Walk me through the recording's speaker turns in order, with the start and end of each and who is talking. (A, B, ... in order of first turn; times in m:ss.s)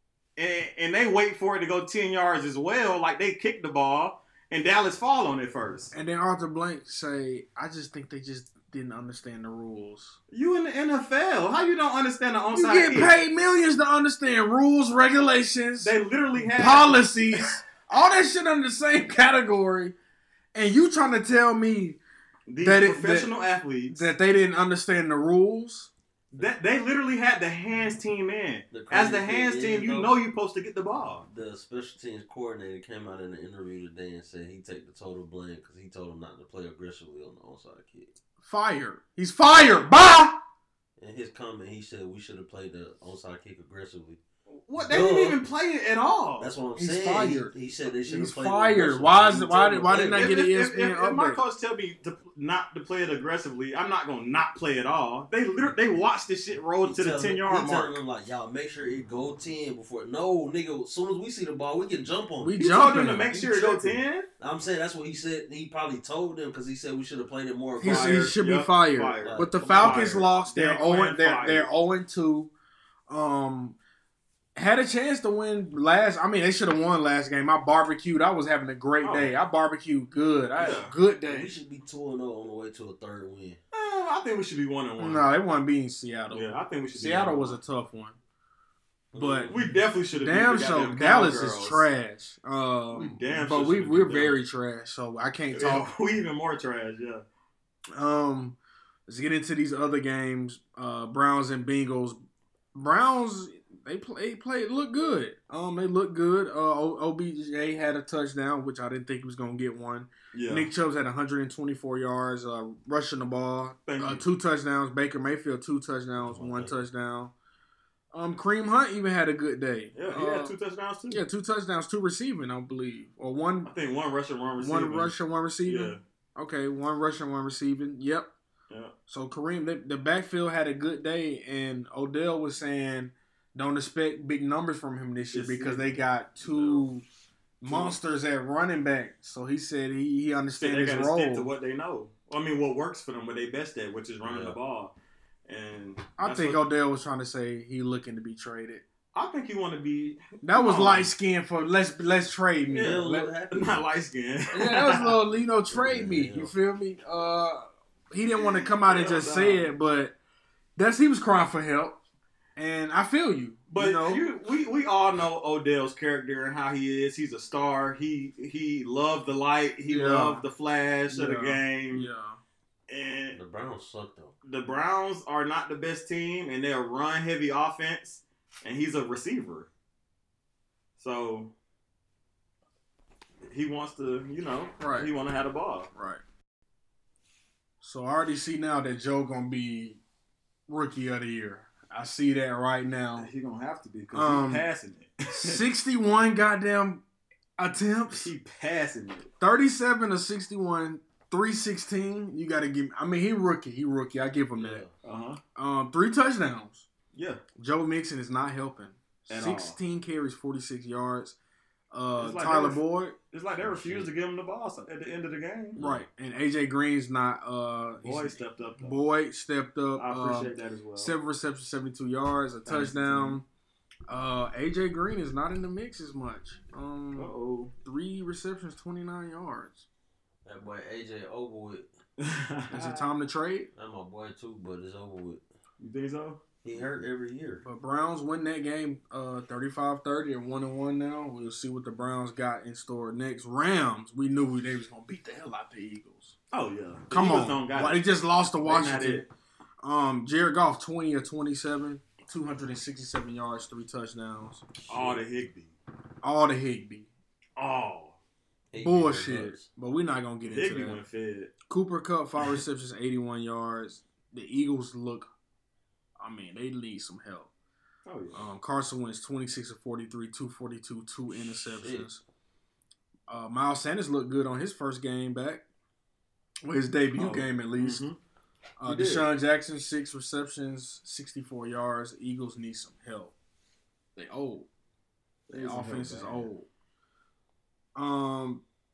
0:00.4-0:05.9 A
0:05.9-0:10.2 B
0:10.3-0:13.1 A
0:12.5-0:15.9 B
0:15.8-0:17.4 A
0:16.5-0:19.9 B
0:20.5-0:22.0 B
0:22.5-0:24.1 A
0:22.6-0:23.3 B
0:23.9-0:25.9 B
0:26.3-0:31.2 A
0:28.7-0:30.1 C
0:31.3-0:38.1 C
0:38.4-0:40.4 B
0:41.0-0:44.2 C
0:44.5-0:46.5 A
0:44.7-0:45.4 C
0:46.4-0:50.3 C
0:46.8-0:51.4 B
0:49.9-0:58.0 A
0:56.8-1:02.6 C
1:02.4-1:03.9 B
1:02.6-1:04.3 A
1:04.4-1:08.3 C
1:07.8-1:11.7 A
1:07.8-1:12.5 B
1:09.2-1:10.1 C
1:13.1-1:13.8 B
1:14.6-1:21.5 B
1:19.0-1:19.3 A
1:20.6-1:20.9 A
1:21.2-1:23.6 C
1:23.7-1:25.3 A
1:25.0-1:28.2 B
1:26.3-1:27.6 A
1:29.1-1:29.7 C
1:29.1-1:29.5 B
1:29.5-1:31.8 A
1:30.2-1:35.9 B
1:32.9-1:34.4 A
1:35.5-1:37.2 A
1:37.9-1:42.2 B
1:42.7-1:57.3 B
1:50.3-1:50.7 A
1:53.9-1:54.2 A
1:56.2-1:56.7 C
1:58.1-2:00.5 B
1:59.9-2:01.2 A
2:01.1-2:03.7 B
2:03.6-2:06.0 A
2:04.6-2:08.3 B
2:09.1-2:17.0 B
2:15.3-2:16.9 A
2:17.6-2:21.5 B
2:17.6-2:18.0 A
2:20.6-2:24.9 A
2:24.2-2:24.6 C
2:25.5-2:26.6 A
2:26.2-2:28.8 B
2:29.1-2:31.1 A
2:30.4-2:33.3 B
2:32.7-2:33.8 C
2:32.7-2:35.2 A
2:34.5-2:40.1 B
2:35.7-2:36.5 C
2:38.4-2:39.7 A
2:40.8-2:42.0 B
2:42.6-2:44.2 B
2:43.7-2:52.1 A
2:49.9-2:50.4 B
2:51.1-2:52.4 B
2:52.9-2:53.4 A
2:53.3-2:54.3 C
2:54.4-2:59.7 A
3:01.0-3:01.5 A
3:03.5-3:05.9 A
3:04.8-3:05.1 B
3:05.9-3:06.2 B
3:07.8-3:10.0 B
3:10.7-3:13.3 B
3:13.2-3:15.6 A
3:14.1-3:14.7 B
3:15.3-3:17.0 B
3:17.6-3:18.3 B
3:18.1-3:19.3 A
3:19.4-3:24.8 B
3:24.6-3:24.9 C
3:25.0-3:25.4 A
3:25.6-3:26.9 B
3:27.1-3:27.4 A
3:27.6-3:31.4 B
3:29.3-3:29.8 A
3:31.9-3:33.2 B
3:32.2-3:35.8 A
3:33.6-3:34.1 C
3:35.8-3:36.0 C
3:35.8-3:43.4 B
3:38.0-3:38.9 A
3:40.0-3:41.1 A
3:42.7-3:43.4 A
3:44.1-3:47.3 B
3:47.2-3:47.7 A
3:47.8-3:49.8 B
3:50.4-3:51.9 C
3:52.2-3:53.0 A
3:52.7-3:53.7 B
3:53.7-3:55.4 C
3:55.8-3:56.4 A
3:56.6-3:57.6 C
3:57.6-4:06.3 B
4:06.5-4:08.0 A
4:07.1-4:09.2 B
4:08.6-4:09.3 A
4:09.8-4:15.1 B
4:14.9-4:15.7 A
4:16.2-4:17.1 B
4:17.6-4:18.2 A
4:18.7-4:19.7 C
4:18.8-4:21.0 B
4:20.5-4:21.5 A
4:21.7-4:25.3 B
4:26.2-4:27.5 B
4:28.0-4:28.4 A
4:28.3-4:32.2 B
4:31.6-4:32.1 C
4:33.3-4:35.6 B
4:36.6-4:38.0 B
4:37.1-4:38.2 A
4:38.8-4:43.3 B
4:38.8-4:39.3 A
4:44.2-4:44.7 B
4:45.5-4:46.5 A
4:45.5-4:46.7 B
4:48.0-4:48.6 B